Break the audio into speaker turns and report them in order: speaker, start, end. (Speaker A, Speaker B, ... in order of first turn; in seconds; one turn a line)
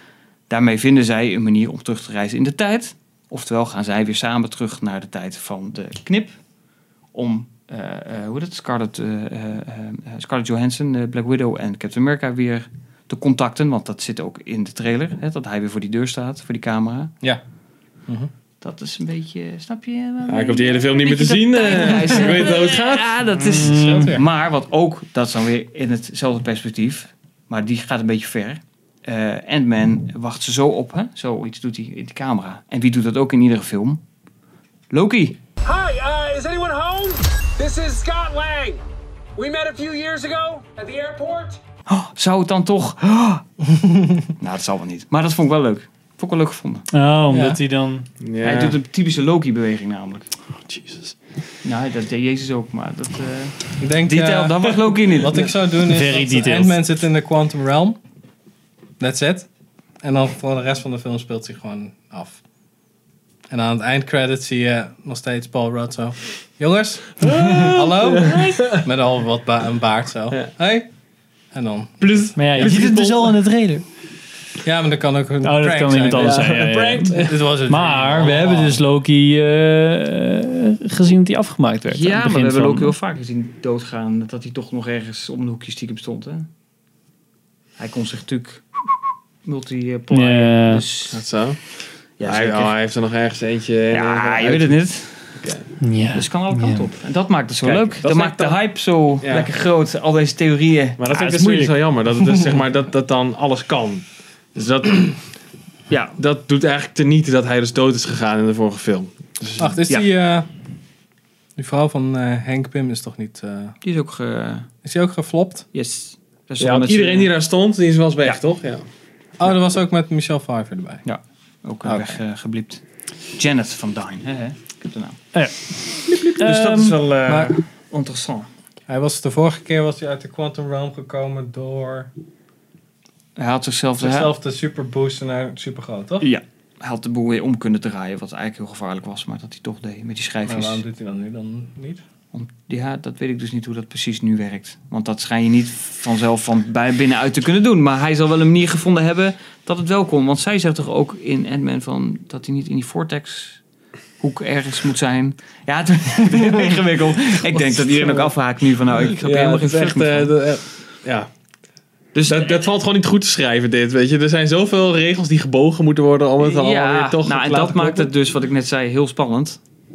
Speaker A: 0.5-6.3
Speaker A: 7.1-17.1
Speaker A: 18.6-34.0
Speaker B: 20.3-23.2
Speaker C: 23.5-24.1
Speaker D: 23.6-24.2
Speaker A: 34.9-35.4
Speaker E: 35.6-38.8
Speaker B: 37.6-38.0
Speaker E: 39.4-41.6
Speaker B: 39.4-39.8
Speaker A: 41.9-43.4
Speaker D: 43.7-44.2
Speaker A: 44.4-46.9
Speaker C: 46.9-48.0
Speaker D: 47.3-47.6
Speaker B: 48.2-48.8
Speaker A: 48.4-50.3
Speaker C: 50.8-51.1
Speaker A: 51.6-55.5
Speaker D: 53.8-58.0
Speaker C: 55.8-56.8
Speaker D: 59.0-59.5
Speaker D: 60.0-62.4
Speaker D: 63.5-70.9
Speaker B: 67.2-68.8
Speaker D: 71.5-72.9
Speaker B: 72.0-73.3
Speaker C: 72.3-73.8
Speaker D: 74.6-78.8
Speaker C: 75.4-82.9
Speaker B: 76.2-77.3
Speaker A: 81.9-86.5
Speaker A: 87.8-88.8
Speaker A: 89.4-91.2
Speaker C: 90.1-90.8
Speaker B: 91.1-94.8
Speaker A: 92.2-92.8
Speaker A: 93.9-95.5
Speaker B: 95.3-95.7
Speaker C: 95.8-96.9
Speaker A: 96.1-101.0
Speaker B: 97.6-98.5
Speaker B: 99.2-99.5
Speaker B: 101.0-105.2
Speaker C: 101.1-101.7
Speaker A: 105.9-106.2
Speaker B: 106.2-109.7
Speaker D: 109.6-110.5
Speaker D: 111.5-113.8
Speaker A: 113.8-114.7
Speaker D: 114.8-115.7
Speaker A: 115.7-117.3
Speaker B: 116.6-118.8
Speaker D: 119.4-121.0
Speaker A: 121.0-122.8
Speaker D: 121.8-122.2
Speaker A: 123.3-125.2
Speaker C: 125.3-127.0
Speaker A: 126.3-128.5
Speaker D: 127.2-127.5
Speaker D: 128.9-132.1
Speaker A: 133.3-134.3
Speaker D: 134.0-136.3
Speaker A: 136.2-140.8
Speaker D: 140.4-142.0
Speaker A: 142.3-153.6
Speaker A: 154.2-160.3
Speaker D: 156.2-158.3
Speaker B: 159.2-161.3
Speaker A: 162.1-162.7
Speaker B: 162.2-168.1
Speaker A: 166.4-169.6